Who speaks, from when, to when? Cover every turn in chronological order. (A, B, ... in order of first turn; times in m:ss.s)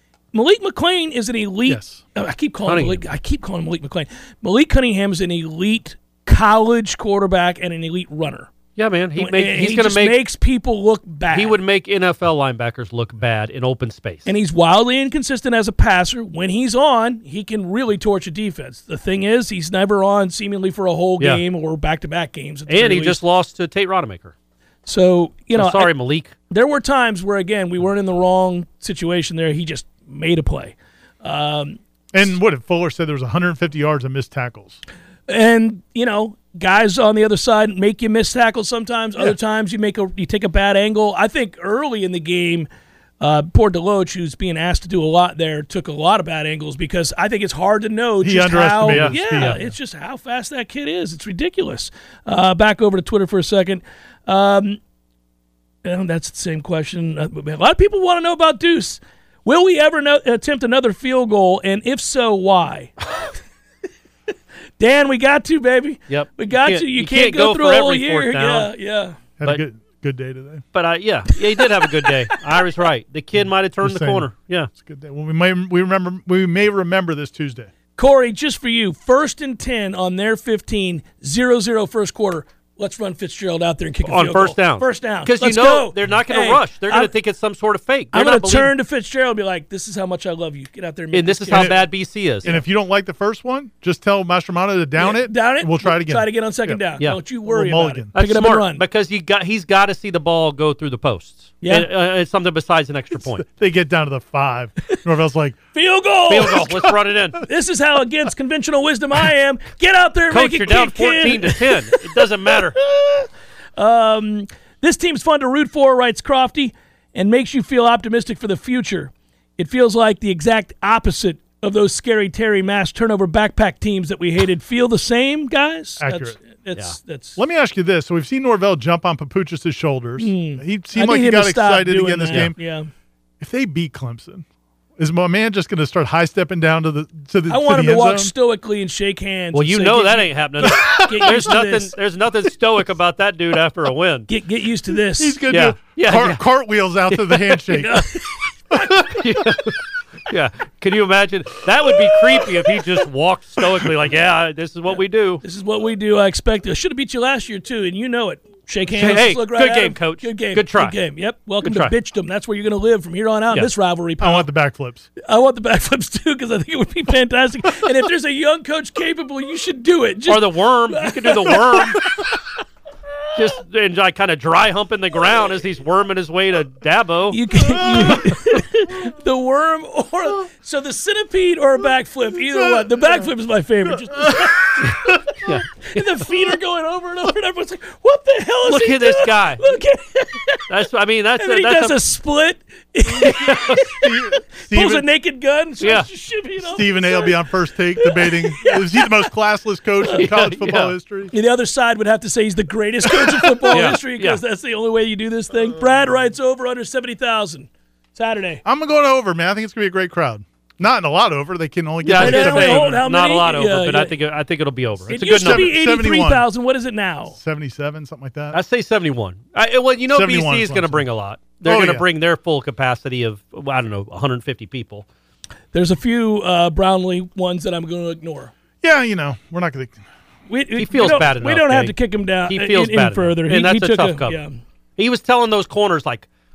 0:00.3-0:08.5 A
0:01.6-0:02.0 B
0:02.6-0:03.0 C
0:08.8-0:10.2 C
0:09.2-0:11.6 A
0:11.3-0:14.3 C
0:14.2-0:23.2 A
0:22.7-0:24.3 C
0:24.8-0:25.9 A
0:25.5-0:26.3 C
0:26.5-0:31.8 A
0:32.1-0:34.8 B
0:35.3-0:42.7 A
0:43.2-0:54.8 A
0:48.2-0:49.7 B
0:48.9-0:49.6 C
0:55.8-1:02.9 A
1:04.8-1:09.2 A
1:06.1-1:08.7 C
1:09.4-1:10.6 B
1:10.7-1:14.7 C
1:13.3-1:17.7 B
1:18.0-1:27.1 A
1:24.0-1:28.7 C
1:28.1-1:31.8 A
1:31.1-1:32.5 C
1:31.5-1:31.8 B
1:32.4-1:36.8 B
1:35.0-1:38.8 A
1:37.4-1:38.1 B
1:38.1-1:43.4 C
1:41.6-1:41.9 A
1:43.1-1:45.6 B
1:45.7-1:46.7 A
1:46.3-1:47.4 C
1:47.4-2:07.4 A
1:50.3-1:52.8 C
2:06.0-2:06.4 B
2:07.4-2:12.6 B
2:10.2-2:12.9 A
2:13.4-2:14.4 B
2:15.0-2:18.3 B
2:17.5-2:21.9 A
2:19.5-2:24.3 C
2:20.6-2:21.0 B
2:24.3-2:25.4 A
2:25.2-2:28.1 B
2:25.5-2:26.4 C
2:27.1-2:27.5 C
2:27.7-2:28.3 A
2:28.8-2:35.4 C
2:29.1-2:29.6 B
2:35.4-2:44.5 A
2:38.9-2:40.9 C
2:41.6-2:41.9 C
2:44.2-2:45.1 B
2:45.2-2:52.0 A
2:50.2-2:52.0 C
2:53.3-2:57.4 C
2:57.3-3:05.2 A
2:57.8-2:58.3 B
3:02.6-3:03.3 B
3:04.1-3:05.1 B
3:04.8-3:06.2 C
3:05.8-3:10.6 A
3:08.6-3:09.6 C
3:10.7-3:12.0 C
3:11.4-3:17.4 A
3:13.1-3:15.1 B
3:13.3-3:13.8 C
3:15.8-3:16.1 C
3:16.6-3:21.3 B
3:18.0-3:19.3 A
3:20.0-3:20.3 A
3:20.2-3:20.9 C
3:21.3-3:28.6 A
3:23.7-3:24.4 C
3:28.6-3:33.0 B
3:32.0-3:35.7 C
3:32.1-3:34.2 A
3:35.0-3:36.5 B
3:35.1-3:37.4 A
3:37.3-3:38.6 B
3:38.5-3:45.0 C
3:40.1-3:41.0 B
3:41.6-3:42.0 B
3:45.7-3:48.5 A
3:48.8-3:50.0 B
3:50.5-3:54.6 A
3:50.8-3:54.4 C
3:55.0-3:56.3 C